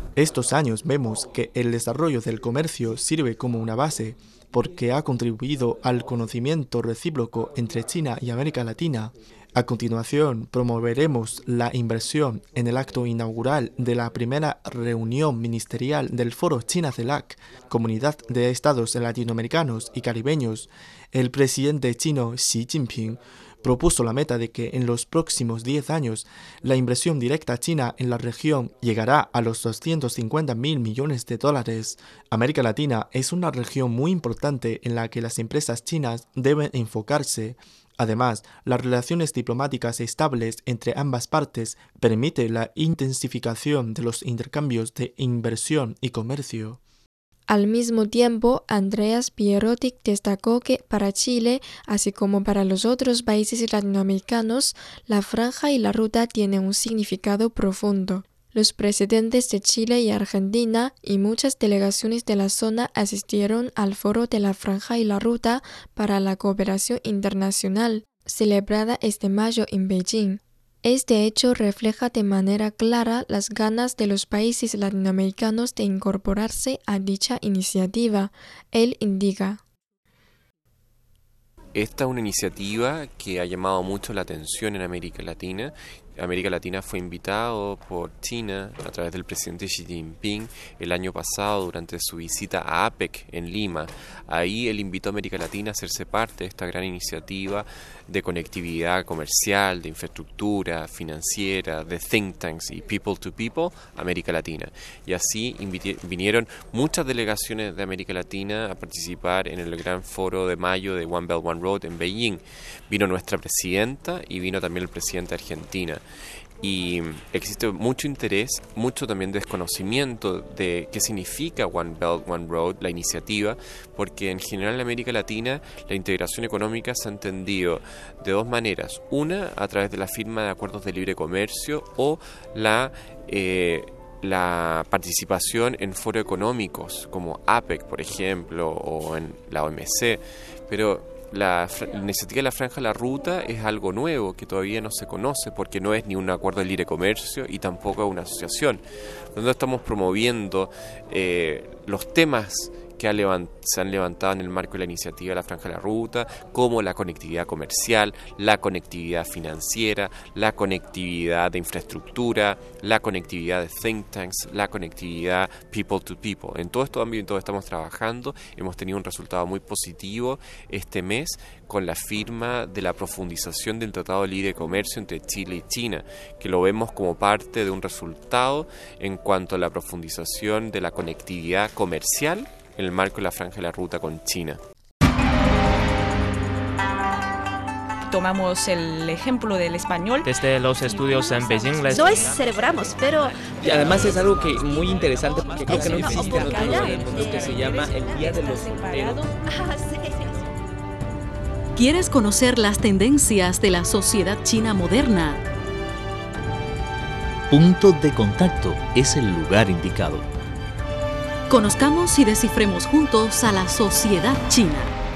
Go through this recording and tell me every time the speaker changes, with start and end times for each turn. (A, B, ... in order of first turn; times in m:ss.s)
0:00.2-0:46.8 A
0:47.5-1:19.6 B
1:21.7-1:56.0 C
1:56.6-2:28.8 C
2:29.3-3:04.6 C
3:08.1-3:10.2 D
3:10.2-3:12.4 E
3:11.9-3:20.4 F
3:16.1-3:16.7 D
3:18.8-3:19.2 D
3:21.8-3:25.4 G
3:27.5-3:30.3 H
3:31.5-3:34.9 G